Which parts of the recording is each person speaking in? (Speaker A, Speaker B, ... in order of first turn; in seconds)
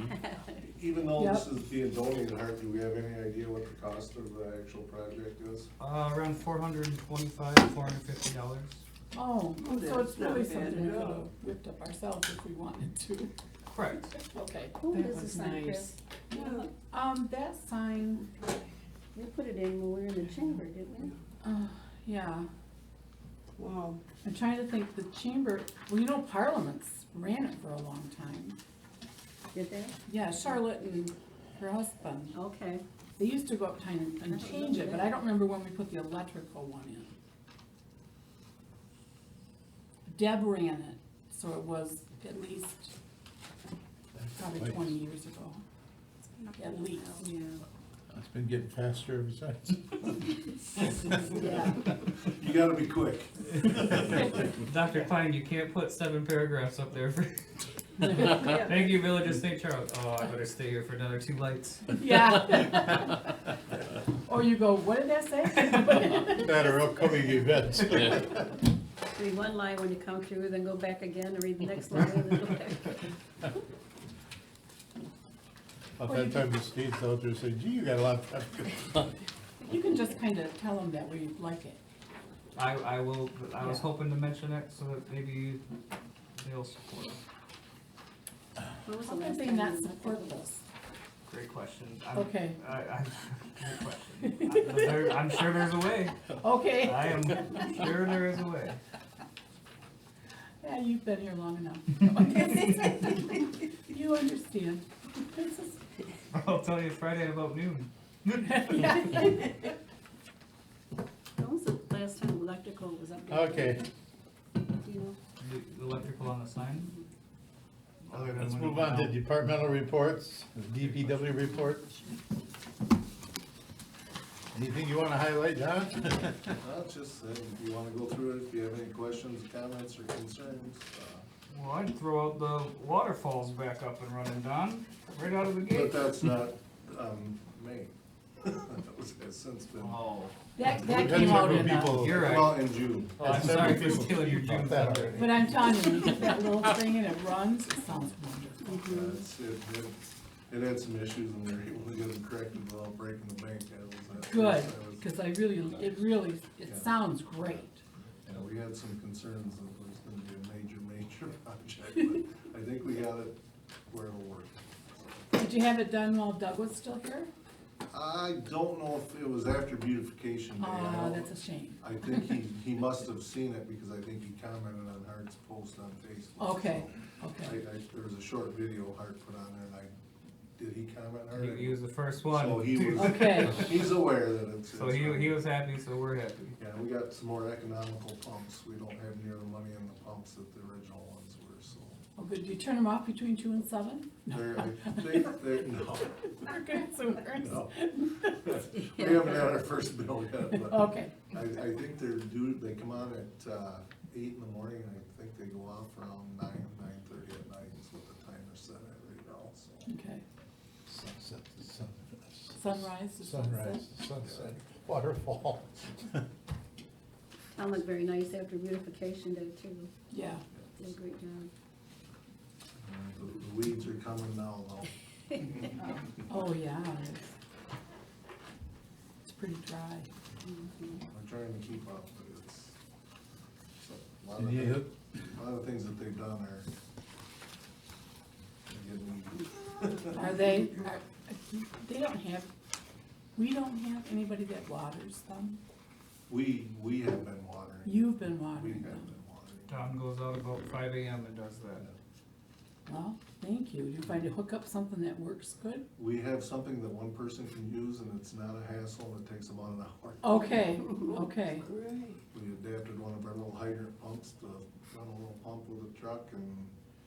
Speaker A: 0.6-5.7, 51.4-54.5, 126.6-131.3, 135.7-140.0, 142.0-143.4, 148.8-155.0, 156.6-157.6, 158.2-163.4, 163.9-164.6, 167.9-179.9, 180.6-185.5, 186.5-192.0, 194.3-196.5, 197.3-197.8, 198.4-209.9, 214.2-214.5, 222.8-225.8, 231.1-232.8, 233.8-236.7, 238.7-240.8, 246.3-250.0, 256.0-260.6, 262.3-266.7
Speaker B: 1.1-1.5, 9.1-13.3, 14.2-14.9, 16.9-18.3, 21.4-22.5, 24.2-28.6, 30.1-32.4, 33.2-37.1, 40.1-43.0, 44.4-45.6, 46.6-47.2, 51.3-51.7, 58.0-58.6, 62.0-66.6, 76.0-76.5, 79.7-81.8, 83.6-83.9, 89.0-90.6, 92.1-92.6, 94.2-95.4, 96.4-97.8, 100.6-105.8, 108.4-109.7, 140.6-142.1, 145.2-148.8, 154.2-157.8, 165.3-167.3, 170.6-172.3, 176.4-177.6, 182.9-183.7, 192.2-195.4, 196.4-198.7, 200.6-201.2, 209.9-210.2, 212.6-213.8, 220.1-220.4, 225.8-227.3, 229.2-230.1, 240.1-242.5, 243.3-245.6, 247.8-249.1, 252.9-255.9, 260.2-261.7
Speaker C: 5.8-8.8, 13.7-14.1, 54.6-62.1, 82.5-85.6, 86.4-87.2, 91.3-98.8, 106.3-109.2, 115.4-116.9, 118.0-119.3, 131.5-136.2, 139.8-140.3, 141.4-145.5, 181.3-183.8, 184.7-186.5, 249.7-251.9
Speaker D: 9.6-11.3, 14.9-16.7, 23.6-24.0, 46.4-47.2, 58.4-59.0, 261.6-262.2
Speaker E: 14.8-16.0, 19.1-21.1, 29.5-29.9, 32.3-32.8, 34.3-35.1, 47.0-47.6, 69.1-73.0, 88.8-90.4, 111.4-113.8, 114.7-115.2, 116.8-117.1, 148.6-149.2, 198.8-199.4, 217.5-219.9, 220.8-221.5, 230.4-231.0
Speaker F: 44.2-44.9, 48.1-50.4, 51.0-51.4, 66.3-68.4, 76.0-79.2, 113.3-113.8, 118.1-122.0, 124.5-126.6, 140.7-142.4, 143.2-146.0, 210.9-216.2, 234.4-234.9